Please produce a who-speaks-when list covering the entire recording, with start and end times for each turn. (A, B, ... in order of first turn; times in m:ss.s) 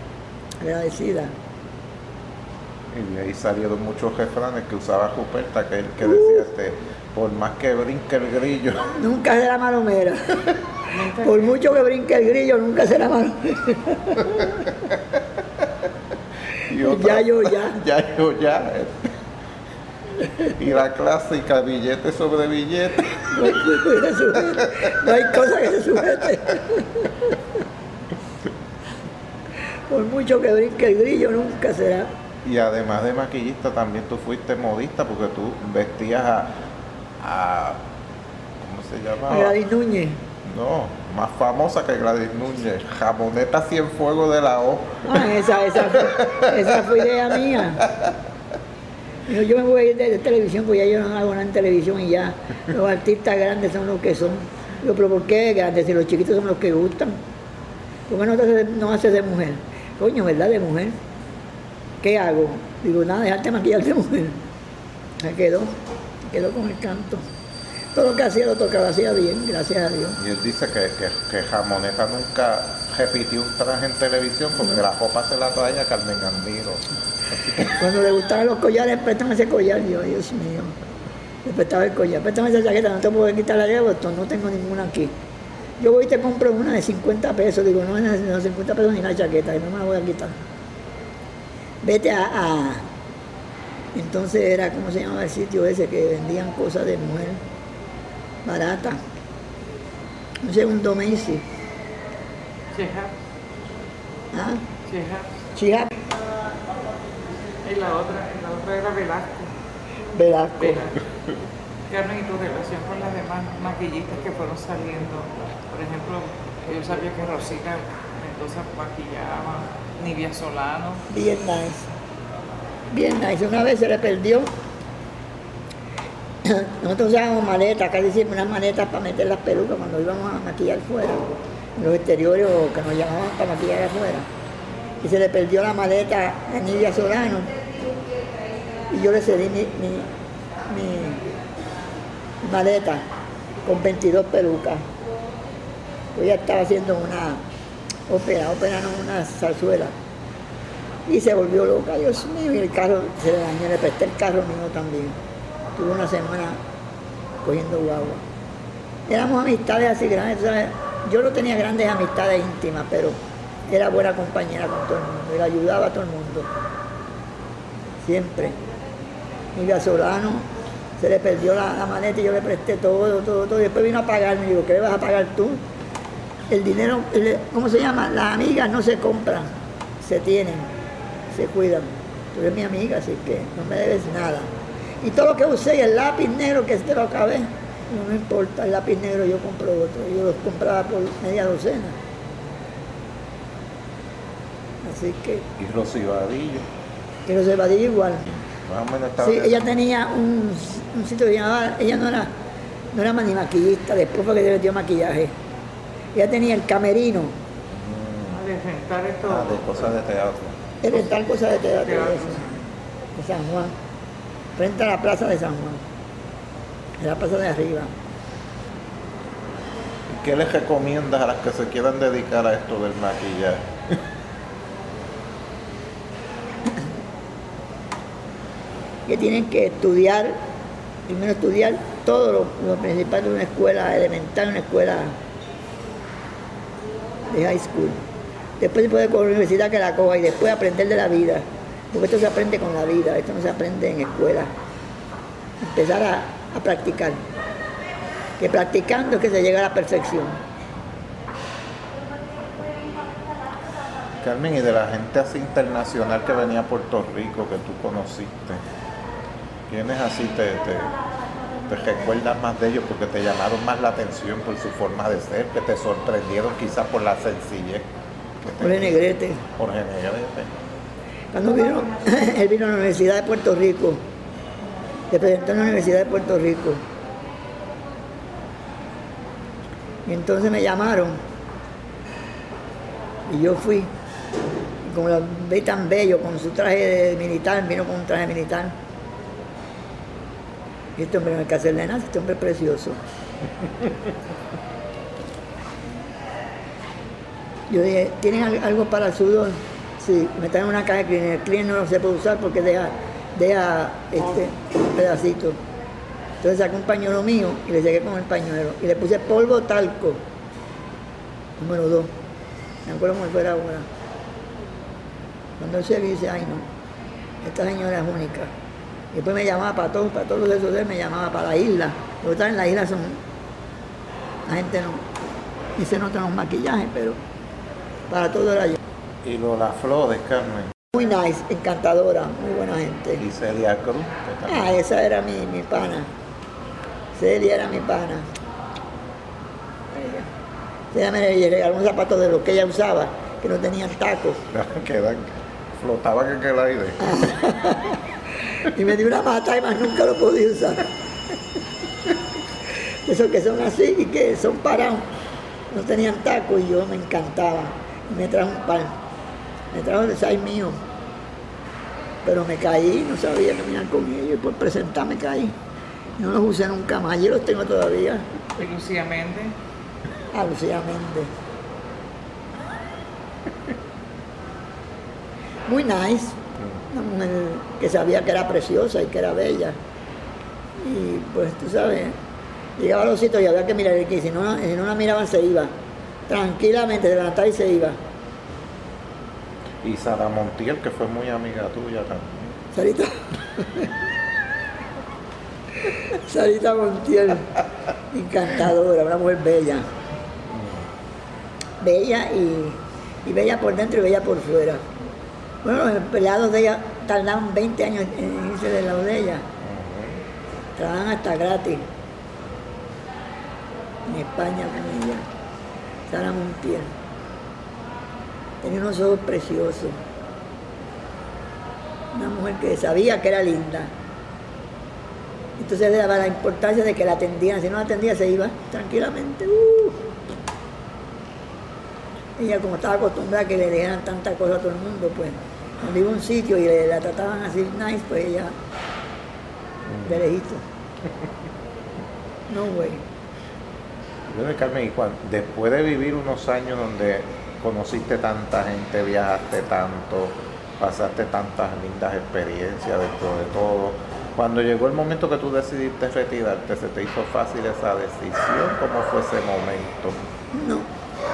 0:00.6-0:01.3 A
0:02.9-0:09.0 B
0:06.0-0:06.5 A
0:08.9-0:10.6 A
0:10.9-0:11.6 C
0:11.2-0:14.8 A
0:14.9-0:15.6 B
0:16.6-0:19.2 B
0:16.8-0:17.8 A
0:20.2-0:20.5 A
0:20.6-0:23.6 B
0:23.3-0:27.4 A
0:24.5-0:25.3 B
0:29.9-0:32.1 A
0:32.4-0:36.6 B
0:37.2-0:37.8 B
0:38.6-0:39.6 B
0:39.3-0:40.2 A
0:40.4-0:47.0 B
0:45.0-0:47.9 A
0:47.8-0:48.1 B
0:49.3-0:57.2 A
0:58.1-1:01.0 A
1:02.0-1:04.4 A
1:05.2-1:07.3 A
1:07.9-1:10.2 A
1:10.2-1:16.9 B
1:17.6-1:20.8 A
1:21.4-1:25.1 A
1:25.8-1:30.4 A
1:31.8-1:32.9 A
1:33.9-1:37.4 A
1:38.4-1:39.0 A
1:40.4-1:41.4 A
1:42.7-1:43.1 C
1:44.3-1:44.7 A
1:44.9-1:45.3 C
1:45.6-1:45.9 A
1:47.6-1:49.5 C
1:50.1-1:50.9 A
1:50.6-1:51.0 C
1:51.9-2:01.0 C
2:01.1-2:01.9 A
2:02.9-2:04.5 A
2:06.4-2:14.3 A
2:15.0-2:17.5 A
2:18.9-2:20.1 A
2:20.7-2:21.2 A
2:22.4-2:23.0 A
2:23.6-2:24.8 A
2:26.1-2:27.4 A
2:28.1-2:29.9 A
2:31.1-2:35.2 A
2:35.7-2:36.6 A
2:37.4-2:38.2 A
2:39.1-2:43.2 A
2:43.7-2:46.5 A
2:48.0-2:48.6 A
2:49.6-2:55.6 A
2:56.5-3:00.7 A
3:01.3-3:12.0 A
3:14.8-3:15.5 A
3:15.6-3:16.7 B
3:17.3-3:18.3 A
3:18.3-3:19.7 B
3:19.2-3:22.3 A
3:22.9-3:25.3 A
3:26.1-3:27.4 A
3:27.7-3:28.4 B
3:28.3-3:29.9 C
3:29.2-3:31.0 B
3:30.8-3:32.4 A
3:31.8-3:32.6 C
3:33.2-3:33.7 A
3:34.6-3:35.8 A
3:37.0-3:37.9 A
3:40.1-3:44.0 B
3:49.1-3:50.4 A
3:51.1-3:55.2 A
3:57.3-3:58.0 A
3:58.6-4:04.5 A
4:05.6-4:07.3 A
4:08.4-4:10.4 A
4:14.2-4:18.6 B
4:19.7-4:21.0 B
4:21.6-4:27.9 B
4:28.4-4:29.0 B
4:28.6-4:29.4 A
4:29.6-4:30.5 B
4:31.3-4:34.0 A
4:35.1-4:36.8 A
4:40.0-4:41.2 A
4:43.3-4:43.9 A
4:44.8-4:48.8 A
4:51.0-4:53.0 A
4:57.7-5:05.6 A
5:06.4-5:10.2 A
5:11.6-5:12.1 A
5:12.8-5:13.9 A
5:15.6-5:16.7 A
5:17.4-5:18.5 A
5:19.1-5:23.2 A
5:24.5-5:25.0 A
5:25.8-5:27.2 A
5:28.1-5:28.8 A
5:29.2-5:30.7 B
5:30.9-5:33.3 A
5:33.2-5:34.8 B
5:34.5-5:36.1 A
5:37.1-5:38.3 A
5:39.9-5:40.3 A
5:40.9-5:44.4 A
5:44.5-5:47.1 B
5:47.0-5:48.0 A
5:48.5-5:50.9 A
5:53.0-5:55.1 A
5:55.7-5:59.0 A
5:59.7-6:00.8 A
6:02.2-6:05.6 A
6:06.2-6:08.3 A
6:08.6-6:09.6 C
6:10.3-6:11.3 A
6:15.7-6:19.8 A
6:20.8-6:22.2 A
6:22.8-6:25.7 A
6:26.3-6:28.0 A
6:29.8-6:32.6 B
6:32.7-6:33.9 A
6:35.9-6:37.6 A
6:38.1-6:39.9 A
6:40.5-6:40.9 B
6:41.8-6:44.8 A
6:45.6-6:49.4 A
6:49.6-6:50.2 B
6:50.8-6:51.9 A
6:54.0-6:55.3 A
6:56.1-6:56.9 A
6:58.6-7:00.0 A
7:02.1-7:03.9 A
7:05.6-7:10.1 A
7:12.4-7:18.6 A
7:19.9-7:20.3 B
7:20.0-7:20.6 A
7:22.5-7:23.0 A
7:24.3-7:40.2 B
7:40.5-7:40.9 A